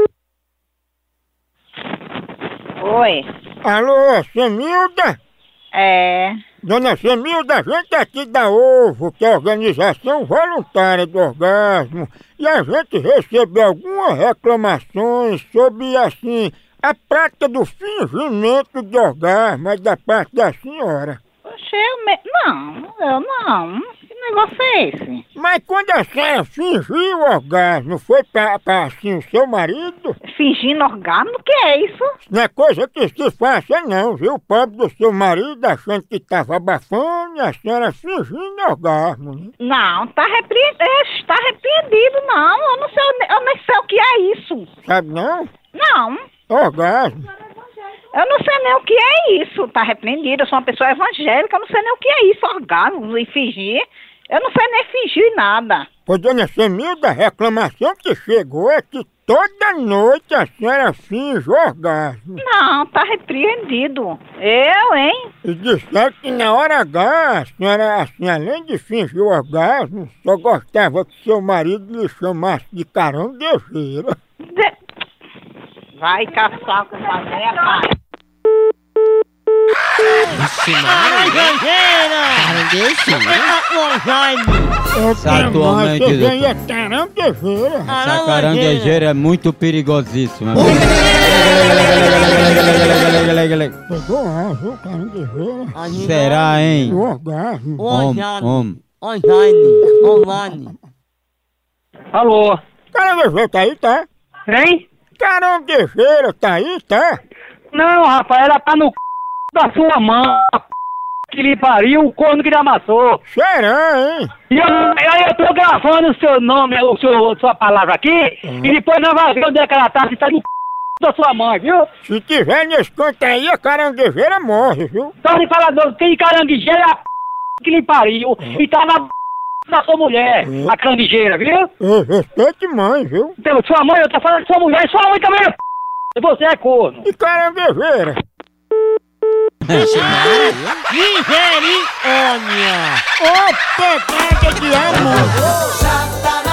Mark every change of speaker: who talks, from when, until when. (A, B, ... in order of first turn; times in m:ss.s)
0:02.8-0:03.2 A
0:03.6-0:05.2 B
0:05.7-0:06.4 A
0:06.6-0:21.2 B
0:21.4-0:25.2 A
0:25.3-0:30.2 B
0:30.3-0:32.1 A
0:32.2-0:39.5 B
0:39.6-0:44.7 A
0:44.8-0:45.5 B
0:45.7-0:46.2 A
0:46.5-0:47.3 B
0:48.1-0:55.9 A
0:56.1-1:02.4 B
1:02.4-1:05.3 A
1:05.4-1:14.1 B
1:16.0-1:17.9 A
1:20.3-1:24.8 C
1:22.4-1:23.4 D
1:24.9-1:27.9 B
1:25.2-1:26.5 D
1:27.9-1:29.0 C
1:28.0-1:33.7 D
1:33.9-1:35.7 B
1:35.7-1:36.8 C
1:35.9-1:37.0 D
1:36.9-1:37.9 B
1:37.8-1:40.7 C
1:37.9-1:38.8 D
1:42.1-1:42.6 E
1:42.9-1:44.1 B
1:44.5-1:44.8 E
1:45.2-1:47.2 B
1:47.7-1:48.9 E
1:49.5-1:50.6 E
1:51.3-1:53.2 E
1:53.2-1:54.3 B
1:54.5-2:00.4 E
1:58.4-1:58.7 B
2:01.0-2:01.8 E
2:02.0-2:05.1 B
2:05.2-2:07.0 E
2:07.6-2:09.1 E
2:09.7-2:11.7 E
2:10.4-2:10.7 B
2:11.8-2:13.3 B
2:13.4-2:15.6 E
2:16.2-2:17.0 E
2:17.0-2:18.2 B
2:19.6-2:20.6 D
2:19.7-2:23.0 C
2:23.2-2:25.4 B